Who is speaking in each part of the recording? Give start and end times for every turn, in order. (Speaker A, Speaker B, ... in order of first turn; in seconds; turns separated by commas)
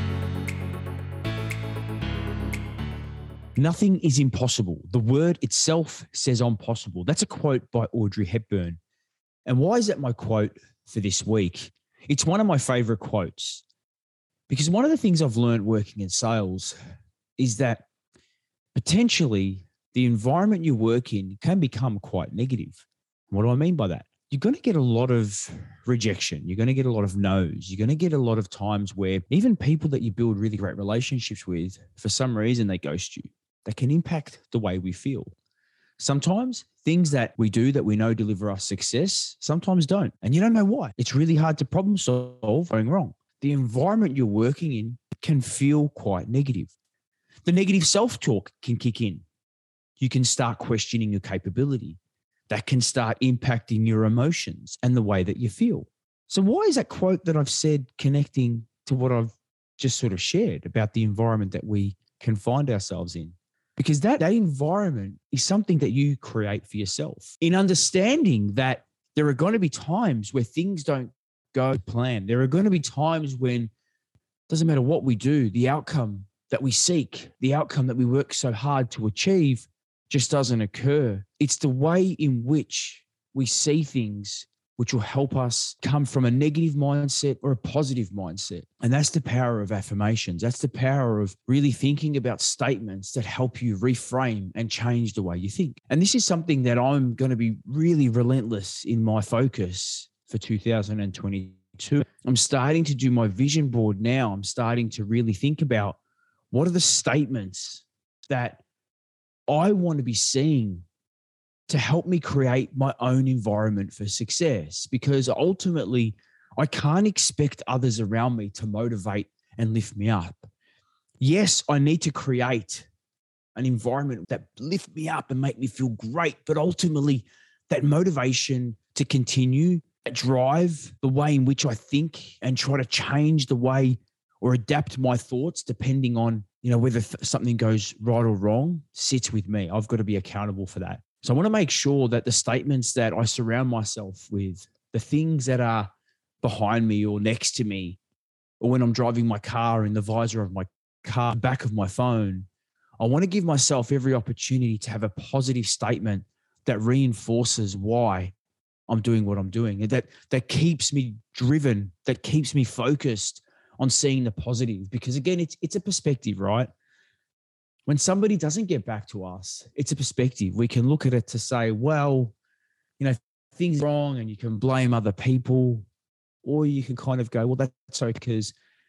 Speaker A: 3.5-8.8, Speaker A: 9.4-13.6, Speaker A: 14.5-16.8, Speaker A: 17.4-17.9, Speaker A: 18.7-35.3, Speaker A: 36.0-46.7, Speaker A: 47.4-49.2, Speaker A: 50.0-52.0, Speaker A: 52.5-73.7, Speaker A: 74.5-106.0, Speaker A: 106.5-108.6, Speaker A: 109.5-110.8, Speaker A: 111.7-120.5, Speaker A: 121.2-122.9, Speaker A: 123.5-145.9, Speaker A: 146.4-148.0, Speaker A: 148.6-152.5, Speaker A: 153.0-158.3, Speaker A: 158.9-166.7, Speaker A: 167.9-172.3, Speaker A: 173.0-175.9, Speaker A: 176.4-178.5